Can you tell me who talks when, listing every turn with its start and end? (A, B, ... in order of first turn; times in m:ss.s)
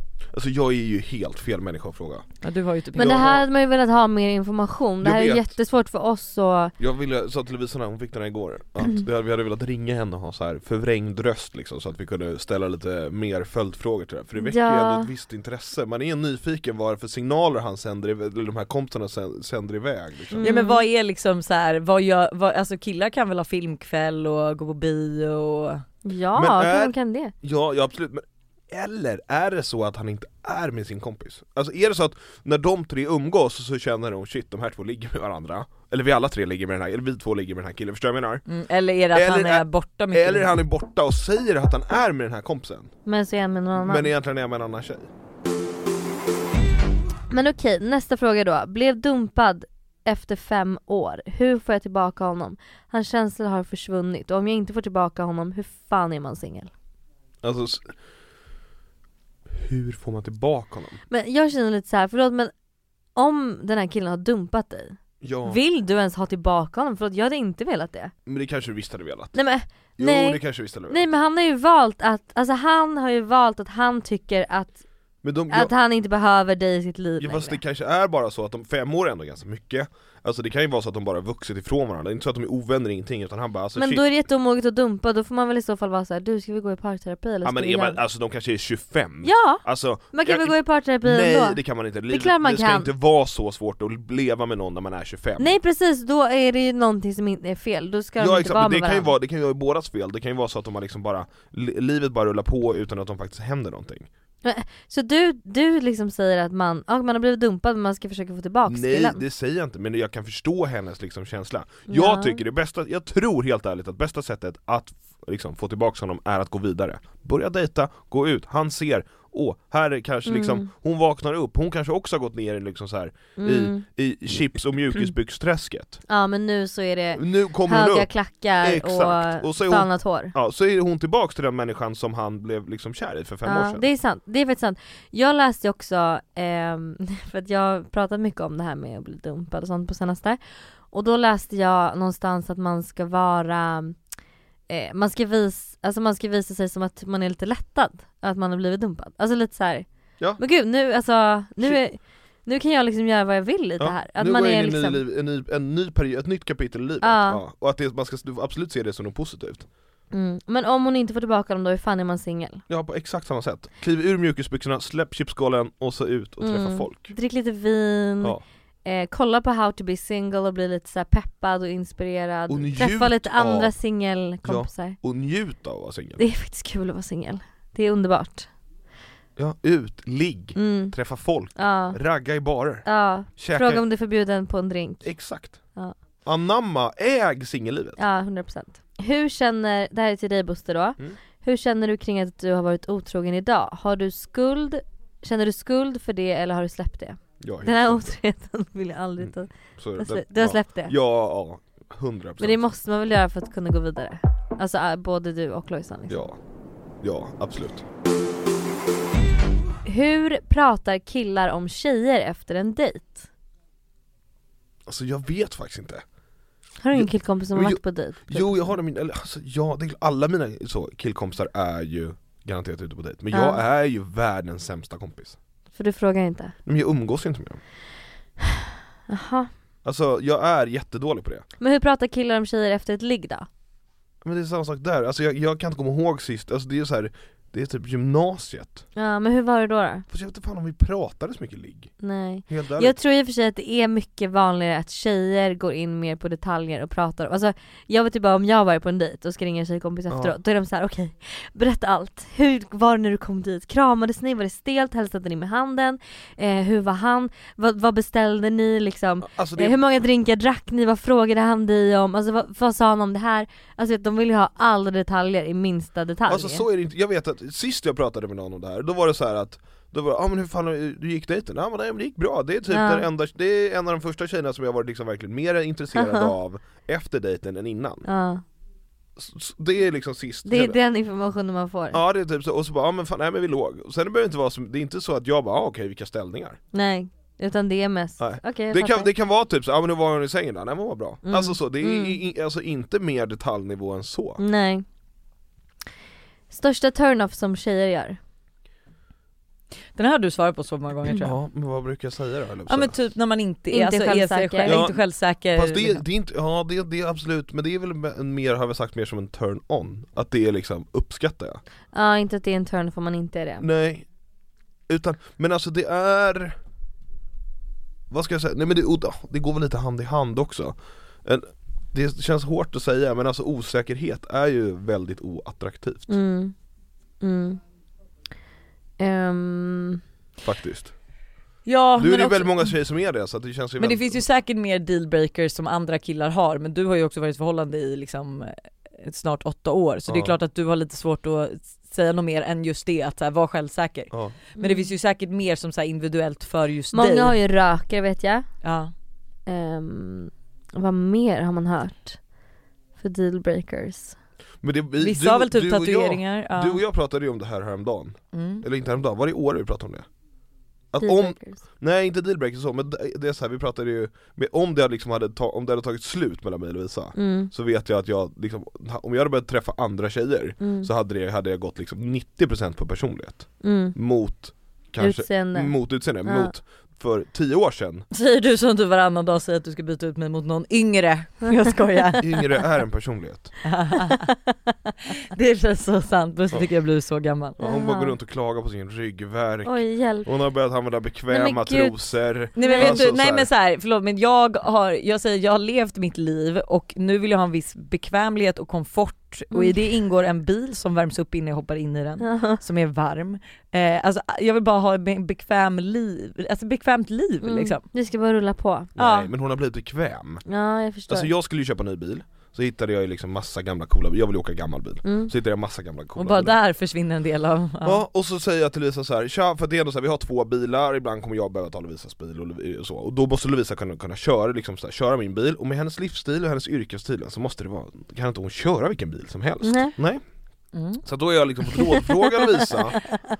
0:00.3-0:02.2 A
0:02.4-0:03.3 B
0:03.0-0:06.7 C
0:03.0-0:03.4 A
0:05.0-0:05.5 A
0:06.8-0:20.5 A
0:14.4-0:15.1 C
0:20.3-0:20.8 C
0:20.4-0:25.8 B
0:26.0-0:27.3 C
0:26.4-0:38.4 A
0:38.4-0:40.5 B
0:39.1-0:42.9 A
0:43.0-0:44.1 C
0:43.8-0:45.1 A
0:47.3-0:56.7 C
0:57.4-0:57.9 A
0:59.5-1:01.0 A
1:01.1-1:02.5 C
1:03.2-1:08.1 C
1:05.2-1:05.6 A
1:08.2-1:09.4 A
1:09.3-1:14.8 C
1:10.0-1:11.0 A
1:15.2-1:15.7 A
1:15.5-1:17.6 C
1:17.2-1:24.0 A
1:23.8-1:28.0 C
1:27.4-1:35.5 A
1:29.2-1:32.9 C
1:35.4-1:39.1 C
1:38.2-1:44.1 A
1:44.4-1:49.2 C
1:48.7-2:06.0 A
1:51.9-1:52.4 C
2:00.2-2:00.7 C
2:03.4-2:03.8 C
2:06.1-2:10.3 C
2:07.2-2:08.1 A
2:08.6-2:13.8 A
2:13.4-2:20.4 C
2:20.9-2:24.0 C
2:24.7-2:29.8 C
2:30.4-2:35.0 C
2:33.8-2:39.7 A
2:37.0-2:37.4 C
2:40.1-2:42.6 C
2:42.7-2:47.1 A
2:46.4-2:55.0 C
2:52.5-2:53.7 A
2:54.4-2:56.2 A
2:56.2-2:58.5 C
2:59.4-3:02.8 A
3:00.6-3:00.9 C
3:01.6-3:02.0 C
3:02.8-3:05.1 C
3:03.4-3:03.8 A
3:05.0-3:05.6 A
3:06.2-3:08.0 A
3:08.0-3:20.9 C
3:17.4-3:18.1 A
3:19.2-3:22.6 A
3:22.4-3:26.2 C
3:26.1-3:26.4 A
3:27.0-3:27.8 A
3:29.8-3:33.2 C
3:34.9-3:36.0 A
3:36.8-3:38.8 C
3:36.9-3:45.4 A
3:43.3-3:43.6 C
3:45.7-3:46.5 C
3:46.6-3:47.6 A
3:48.6-3:49.5 C
3:49.8-3:51.4 A
3:51.6-3:53.5 C
3:54.2-3:58.8 A
3:59.0-4:00.0 C
4:00.1-4:01.9 A
4:02.0-4:26.6 C
4:02.5-4:03.0 A
4:10.1-4:10.3 A
4:19.2-4:19.8 A
4:26.3-4:38.0 A
4:32.7-4:33.1 C
4:35.9-4:36.3 C
4:38.0-4:38.4 C
4:39.2-4:40.8 A
4:40.4-4:42.0 C
4:41.9-4:46.6 A
4:46.7-4:49.1 C
4:48.2-4:54.4 A
4:51.2-4:52.2 C
4:54.4-4:54.8 C
4:56.5-4:58.2 C
4:59.9-5:01.3 B
5:01.2-5:03.0 A
5:02.7-5:06.0 B
5:03.7-5:04.8 C
5:04.6-5:05.0 A
5:05.5-5:11.6 A
5:11.9-5:13.6 C
5:13.6-5:14.1 A
5:14.9-5:16.6 A
5:18.1-5:26.1 A
5:26.1-5:26.5 C
5:27.2-5:27.6 C
5:29.0-5:30.0 C
5:30.4-5:30.9 A
5:31.6-5:32.6 B
5:32.0-5:34.2 A
5:33.8-5:47.3 B
5:40.1-5:40.3 A
5:44.6-5:44.9 C
5:46.9-5:48.5 C
5:48.6-5:48.9 B
5:49.5-5:52.2 C
5:53.0-5:54.2 C
5:54.6-6:00.1 A
5:55.0-5:56.8 B
5:58.3-5:58.6 B
6:00.9-6:18.1 A
6:01.0-6:01.6 C
6:07.2-6:07.5 C
6:10.6-6:10.9 C
6:13.6-6:14.0 C
6:15.0-6:16.5 C
6:18.1-6:22.4 B
6:22.2-6:23.5 A
6:23.6-6:24.3 B
6:24.0-6:24.5 C
6:25.1-6:27.6 B
6:27.6-6:33.5 A
6:27.6-6:28.1 C
6:29.6-6:30.3 C
6:31.3-6:32.0 C
6:32.6-6:47.8 B
6:32.6-6:33.1 C
6:39.5-6:39.8 C
6:42.2-6:42.6 C
6:47.4-6:48.9 C
6:49.0-6:50.4 A
6:49.0-6:49.3 B
6:50.4-6:51.3 C
6:51.1-6:56.6 A
6:55.0-6:55.3 C
6:56.2-6:58.0 B
6:57.8-7:10.2 A
7:09.6-7:09.9 C
7:10.7-7:11.0 B
7:11.0-7:13.0 A